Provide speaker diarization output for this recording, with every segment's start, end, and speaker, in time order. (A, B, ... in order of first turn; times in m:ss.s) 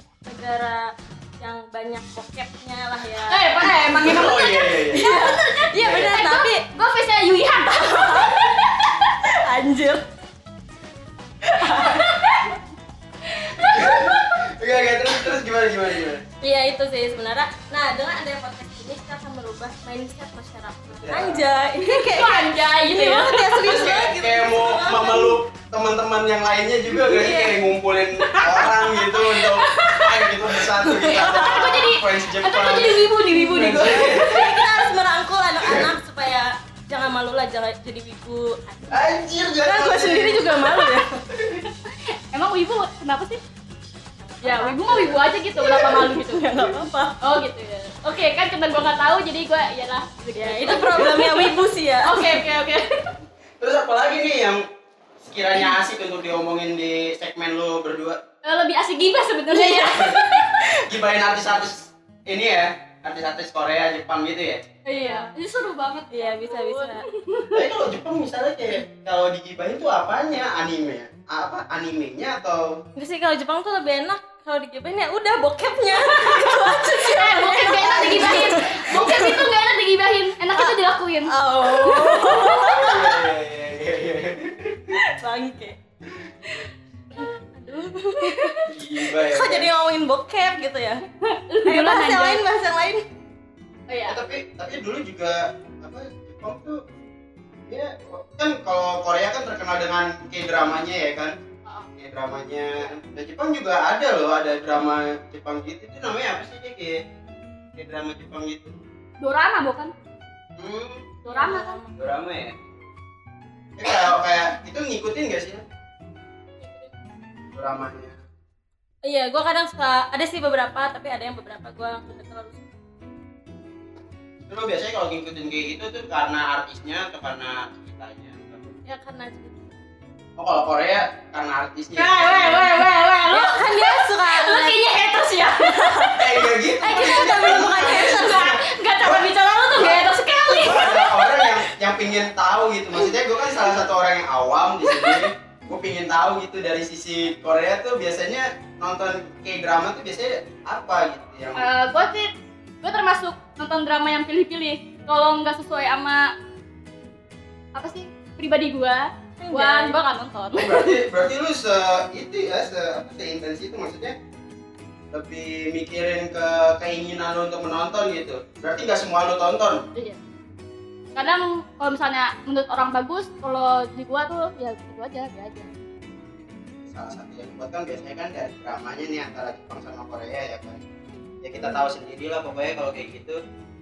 0:00.2-0:03.7 A
0:03.3-0:09.2 B
0:03.8-0:05.0 C
0:04.9-0:06.6 A
0:05.8-0:06.1 C
0:07.7-0:08.6 A
0:09.2-0:10.0 A
0:11.4-0:12.4 A
0:11.6-0:12.6 B
0:13.2-0:14.4 B
0:13.5-0:16.2 C
0:16.4-0:25.4 A
0:20.9-0:21.4 C
0:21.8-0:24.1 B
0:23.6-0:34.6 C
0:27.0-0:29.5 A
0:29.2-0:30.3 B
0:30.8-0:31.9 A
0:31.0-0:34.5 B
0:33.3-0:39.0 A
0:35.6-0:35.9 C
0:38.9-0:40.7 C
0:39.6-0:41.2 A
0:41.3-0:41.6 C
0:41.9-0:43.4 B
0:44.4-0:45.2 A
0:44.4-0:46.4 B
0:45.6-0:46.1 C
0:45.8-0:47.2 A
0:47.2-0:53.1 B
0:50.4-0:52.4 A
0:53.6-0:54.6 C
0:55.2-0:58.2 C
0:58.4-1:00.6 B
0:59.6-1:00.7 A
0:59.9-1:00.2 C
1:00.7-1:04.6 C
1:04.8-1:07.6 B
1:05.0-1:05.3 A
1:06.1-1:07.0 A
1:07.5-1:12.8 C
1:13.0-1:19.5 A
1:16.1-1:22.9 B
1:17.9-1:19.2 C
1:20.5-1:23.3 A
1:22.2-1:25.0 C
1:24.9-1:25.8 A
1:27.2-1:31.0 A
1:28.2-1:28.7 B
1:28.7-1:29.7 C
1:31.3-1:32.4 B
1:31.6-1:33.0 A
1:33.9-1:34.2 B
1:34.1-1:36.8 C
1:37.7-1:41.4 C
1:42.0-1:47.0 C
1:47.8-1:48.7 C
1:49.2-1:49.9 B
1:50.6-1:51.1 C
1:51.2-1:51.7 B
1:51.3-1:51.9 A
1:52.0-1:52.7 C
1:53.8-1:55.6 C
1:57.5-1:58.2 C
1:59.0-2:02.6 A
2:04.5-2:08.8 C
2:08.8-2:09.7 A
2:10.4-2:12.6 C
2:11.9-2:16.2 B
2:13.3-2:14.8 A
2:15.6-2:16.3 A
2:16.2-2:31.7 C
2:16.8-2:21.5 B
2:16.8-2:18.6 A
2:24.9-2:25.2 B
2:31.5-2:32.3 B
2:32.8-2:36.3 B
2:37.7-2:41.0 B
2:39.4-2:40.0 A
2:40.5-2:44.2 C
2:45.1-2:49.8 C
2:51.2-2:55.7 B
2:56.8-3:00.8 C
3:01.4-3:03.4 C